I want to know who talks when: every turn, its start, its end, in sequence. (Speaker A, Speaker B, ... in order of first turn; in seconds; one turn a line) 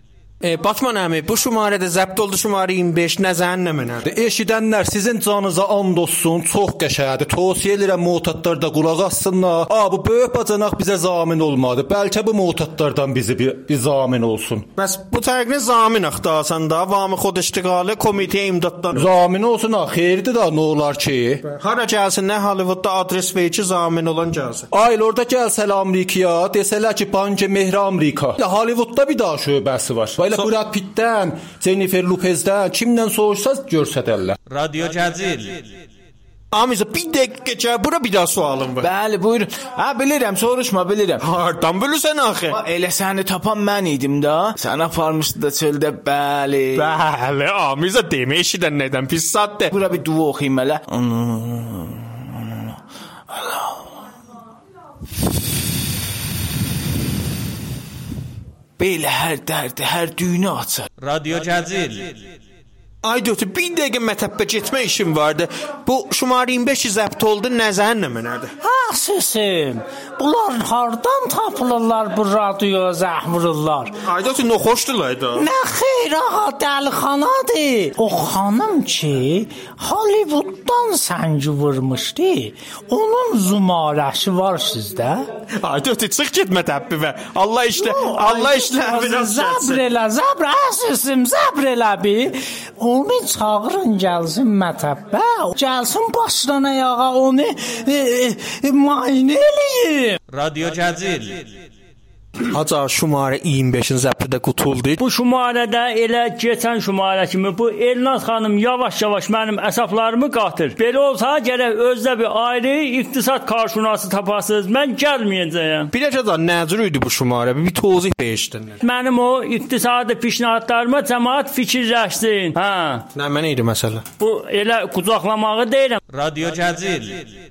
Speaker A: 0.4-4.1
Speaker B: 4.0-14.7
Speaker A: 14.8-19.1
Speaker B: 18.9-21.4
Speaker A: 21.5-24.7
Speaker B: 24.7-34.4
Speaker C: 34.5-35.6
Speaker A: 36.5-38.9
Speaker D: 38.8-41.2
Speaker A: 41.2-42.6
Speaker D: 42.5-46.8
Speaker A: 46.7-49.7
Speaker D: 49.7-52.1
Speaker D: 53.3-53.8
Speaker D: 58.8-60.9
Speaker C: 61.0-62.2
Speaker A: 63.0-68.5
Speaker E: 68.6-74.0
Speaker A: 74.0-75.5
Speaker E: 75.3-85.3
Speaker A: 85.6-89.9
Speaker E: 87.8-100.2
Speaker C: 100.3-101.5
Speaker A: 102.5-105.0
Speaker F: 105.0-115.9
Speaker A: 115.9-118.8
Speaker F: 118.8-123.0
Speaker A: 123.1-124.0
Speaker F: 124.2-126.0
Speaker C: 126.1-127.3